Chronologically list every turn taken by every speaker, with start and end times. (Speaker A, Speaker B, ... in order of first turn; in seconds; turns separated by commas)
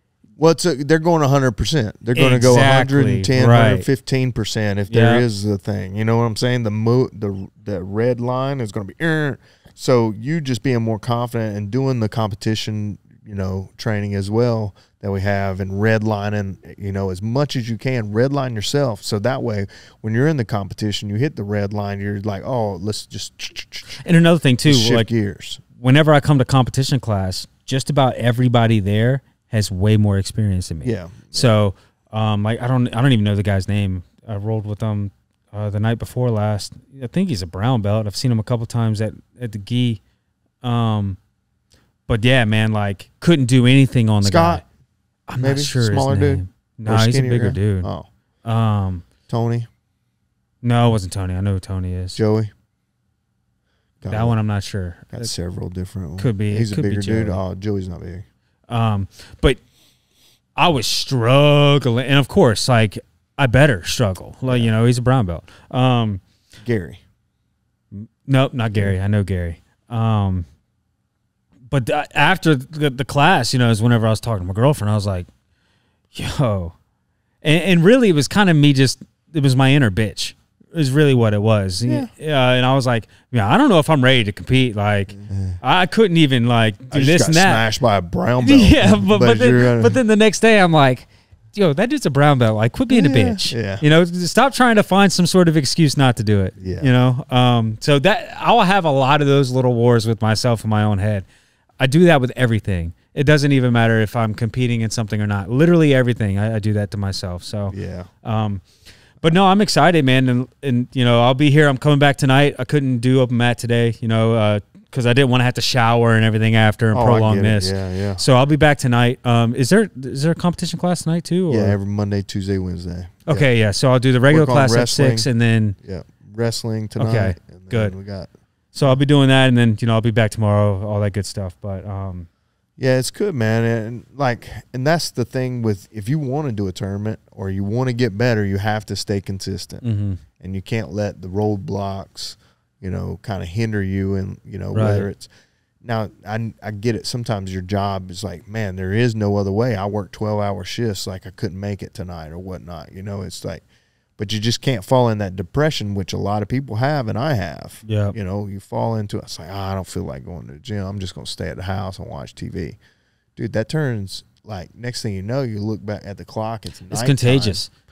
Speaker A: 0.4-24.0, Speaker B: 2.1-3.9, Speaker B: 4.9-5.2, Speaker B: 24.0-25.1, Speaker A: 24.7-25.6, Speaker B: 25.7-40.0, Speaker A: 30.8-31.6, Speaker B: 40.6-41.2, Speaker B: 42.1-44.6, Speaker A: 44.2-44.6, Speaker B: 45.3-47.9, Speaker A: 45.4-48.1, Speaker B: 48.5-49.0, Speaker A: 49.3-49.7, Speaker B: 50.6-52.2, Speaker A: 52.1-52.5, Speaker A: 54.0-54.4, Speaker B: 54.1-55.3, Speaker A: 55.1-58.3, Speaker B: 56.2-57.4, Speaker B: 58.7-59.6, Speaker B: 60.6-66.2, Speaker A: 66.6-67.0, Speaker B: 67.9-70.5, Speaker B: 71.7-75.3, Speaker B: 76.1-76.8, Speaker B: 77.4-87.6, Speaker A: 85.1-85.6, Speaker A: 86.9-90.0, Speaker B: 88.4-101.2, Speaker A: 92.9-93.8, Speaker A: 96.6-96.9, Speaker B: 101.8-108.7, Speaker A: 107.7-108.1, Speaker B: 109.2-121.8, Speaker A: 116.9-118.2, Speaker A: 121.5-123.5, Speaker B: 123.3-125.8, Speaker A: 124.3-125.3, Speaker A: 125.8-128.3, Speaker B: 127.0-128.0, Speaker B: 128.7-132.3, Speaker A: 132.8-139.8, Speaker B: 139.8-140.2, Speaker A: 140.4-145.3, Speaker B: 144.7-145.1, Speaker A: 145.8-153.6, Speaker A: 154.2-162.8, Speaker B: 157.8-158.2, Speaker A: 163.4-167.6, Speaker B: 166.9-167.7